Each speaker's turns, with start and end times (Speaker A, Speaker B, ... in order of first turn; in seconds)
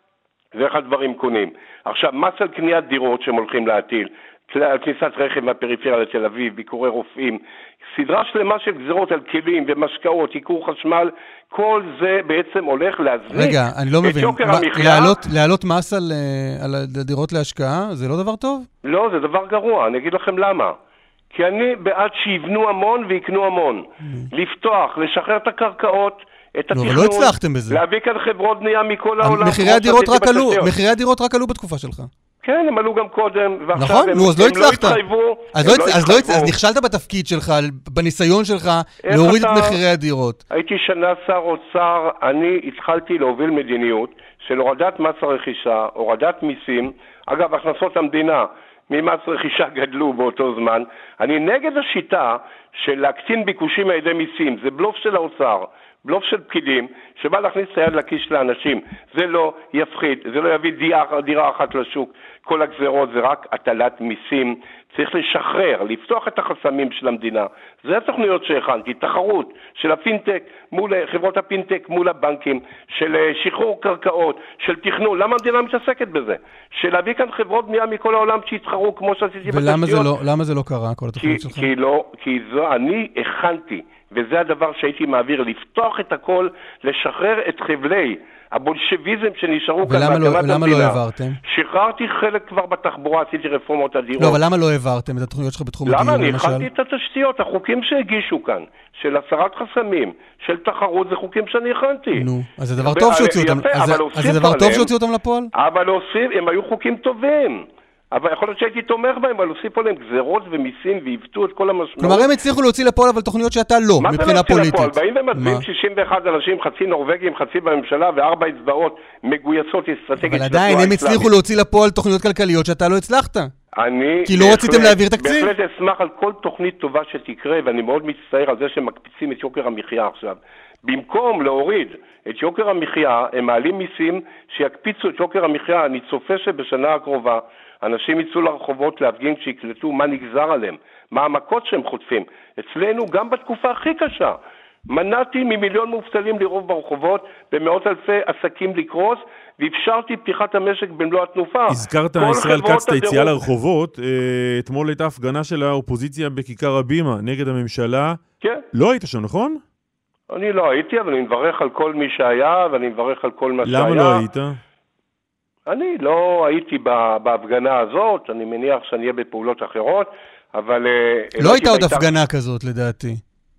Speaker A: 0.5-15.2, 18.8-20.8, 21.3-30.7, 32.4-36.5, 39.0-39.8, 40.5-80.1, 81.2-94.4, 95.8-102.3, 102.8-104.9, 105.5-112.3, 114.0-121.4, 123.8-144.4, 144.9-153.4, 160.3-164.2, 165.7-172.1
Speaker B: 13.3-18.7, 26.7-27.8, 29.2-32.1, 33.8-35.0, 35.5-40.4, 79.5-81.7, 89.8-91.4, 94.2-96.7, 102.1-105.5, 112.0-115.7, 120.2-123.5, 124.2-125.5, 171.4-173.2
Speaker C: 151.7-158.2, 158.7-159.6, 163.6-164.6